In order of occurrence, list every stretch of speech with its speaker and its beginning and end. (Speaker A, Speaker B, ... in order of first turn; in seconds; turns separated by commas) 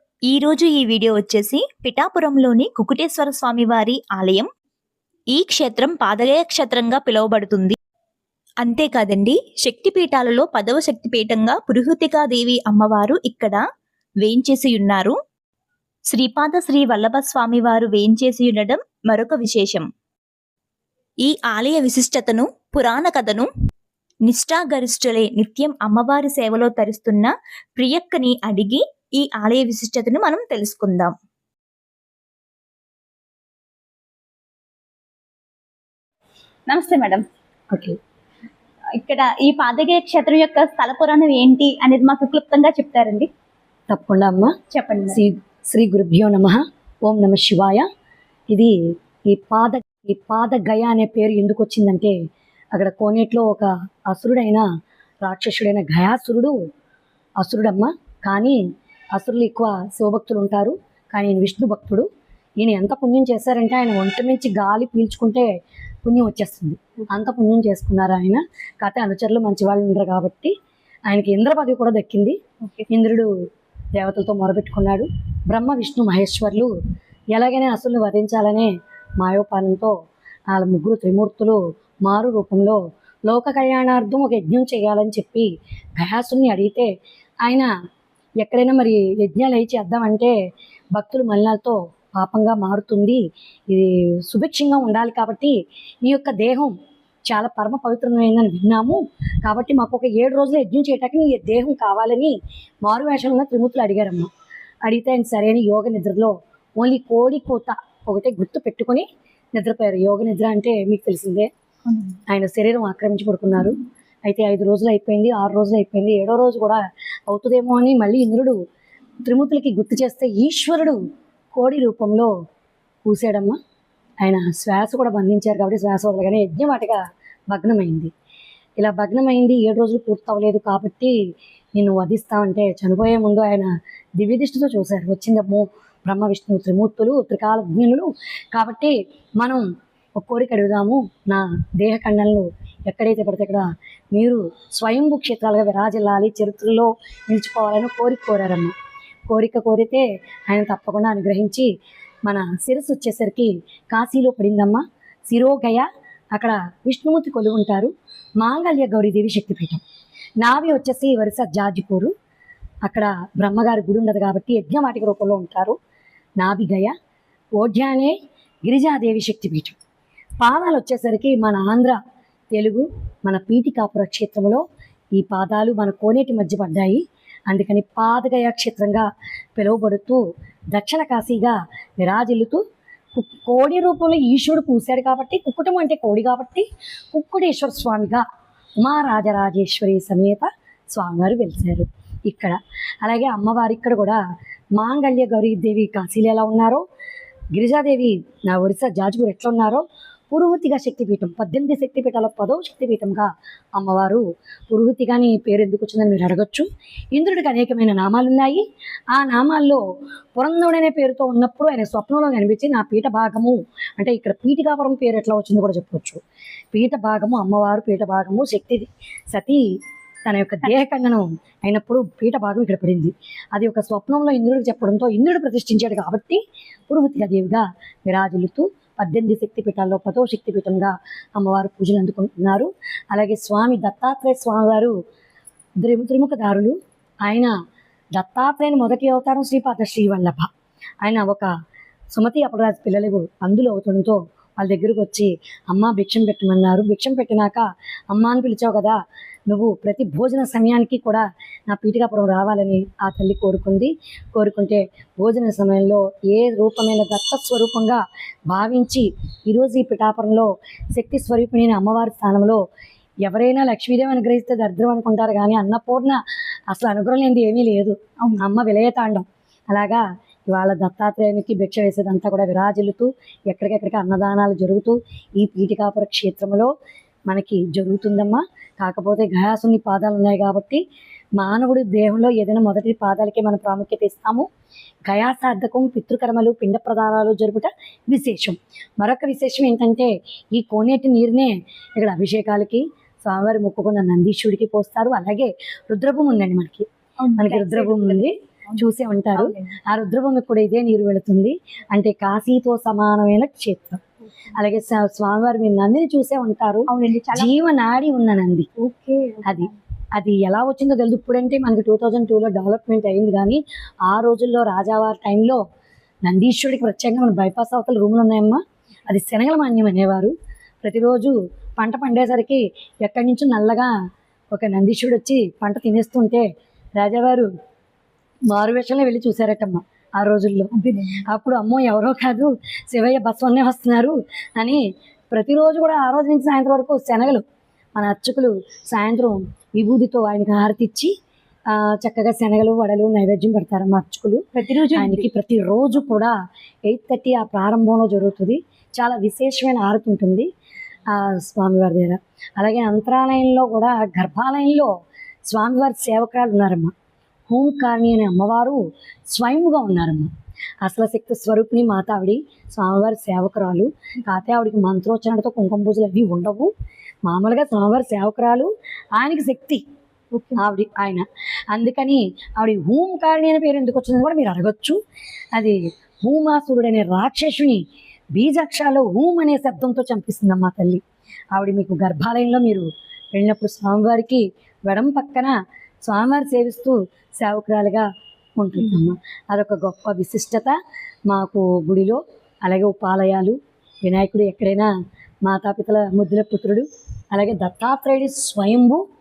Speaker A: 0.3-4.5, Speaker A: 5.3-7.8, Speaker A: 8.6-13.6, Speaker A: 14.2-15.2, Speaker A: 16.1-19.9, Speaker A: 21.2-23.5, Speaker A: 24.2-31.1, Speaker B: 36.7-37.2, Speaker B: 38.9-43.3, Speaker C: 43.9-44.5, Speaker B: 44.7-45.2, Speaker C: 45.1-47.9, Speaker C: 49.3-52.1, Speaker C: 52.7-54.6, Speaker C: 55.2-56.6, Speaker C: 57.4-58.6, Speaker C: 59.1-62.1, Speaker C: 62.6-65.5, Speaker C: 66.0-70.5, Speaker C: 71.1-72.3, Speaker B: 72.6-72.9, Speaker C: 72.9-73.3, Speaker C: 74.0-76.7, Speaker C: 77.3-79.9, Speaker C: 80.5-86.9, Speaker C: 88.4-90.3, Speaker C: 91.0-96.7, Speaker C: 97.3-102.3, Speaker C: 102.8-104.3, Speaker C: 104.8-111.5, Speaker B: 111.8-112.2, Speaker C: 112.3-118.5, Speaker C: 119.2-121.0, Speaker C: 121.5-122.3, Speaker C: 123.0-123.6, Speaker C: 124.2-127.0, Speaker C: 127.5-128.1, Speaker C: 128.8-131.1, Speaker C: 131.8-139.7, Speaker C: 140.2-148.7, Speaker C: 149.3-151.7, Speaker C: 152.2-159.8, Speaker C: 160.4-162.1, Speaker C: 162.8-165.8, Speaker C: 166.4-166.9, Speaker C: 167.6-169.8, Speaker C: 170.4-172.0, Speaker C: 172.5-174.6, Speaker C: 175.2-179.1, Speaker C: 179.6-180.2, Speaker C: 180.7-182.6, Speaker C: 183.1-188.2, Speaker C: 188.8-194.2, Speaker C: 194.8-196.8, Speaker C: 197.5-209.8, Speaker C: 210.3-216.2, Speaker C: 216.7-219.6, Speaker C: 220.2-234.9, Speaker C: 235.8-237.5, Speaker C: 238.2-240.5, Speaker C: 241.0-241.5, Speaker C: 242.2-248.9, Speaker C: 249.5-262.6, Speaker C: 263.2-266.2, Speaker C: 266.7-276.7, Speaker C: 277.3-280.8, Speaker C: 281.4-284.5, Speaker C: 285.1-304.0, Speaker B: 297.2-299.8, Speaker C: 304.5-308.7, Speaker B: 306.9-307.5, Speaker B: 308.8-309.7, Speaker C: 309.4-315.6, Speaker C: 316.2-323.9, Speaker C: 324.5-326.4, Speaker C: 327.0-327.5, Speaker C: 328.5-330.7, Speaker B: 330.7-331.2, Speaker C: 331.3-337.4, Speaker C: 337.9-341.1, Speaker C: 341.7-346.3, Speaker B: 344.5-345.3, Speaker C: 346.9-350.5, Speaker C: 351.1-354.9, Speaker C: 355.5-356.9, Speaker C: 357.5-358.8, Speaker C: 359.3-360.3, Speaker C: 360.8-366.7, Speaker C: 367.3-369.8, Speaker B: 370.3-370.7, Speaker C: 370.6-375.0, Speaker C: 375.5-377.8, Speaker C: 378.4-381.0, Speaker C: 381.5-385.5, Speaker C: 386.1-388.1, Speaker C: 388.6-390.8, Speaker C: 391.3-394.9, Speaker C: 395.4-399.0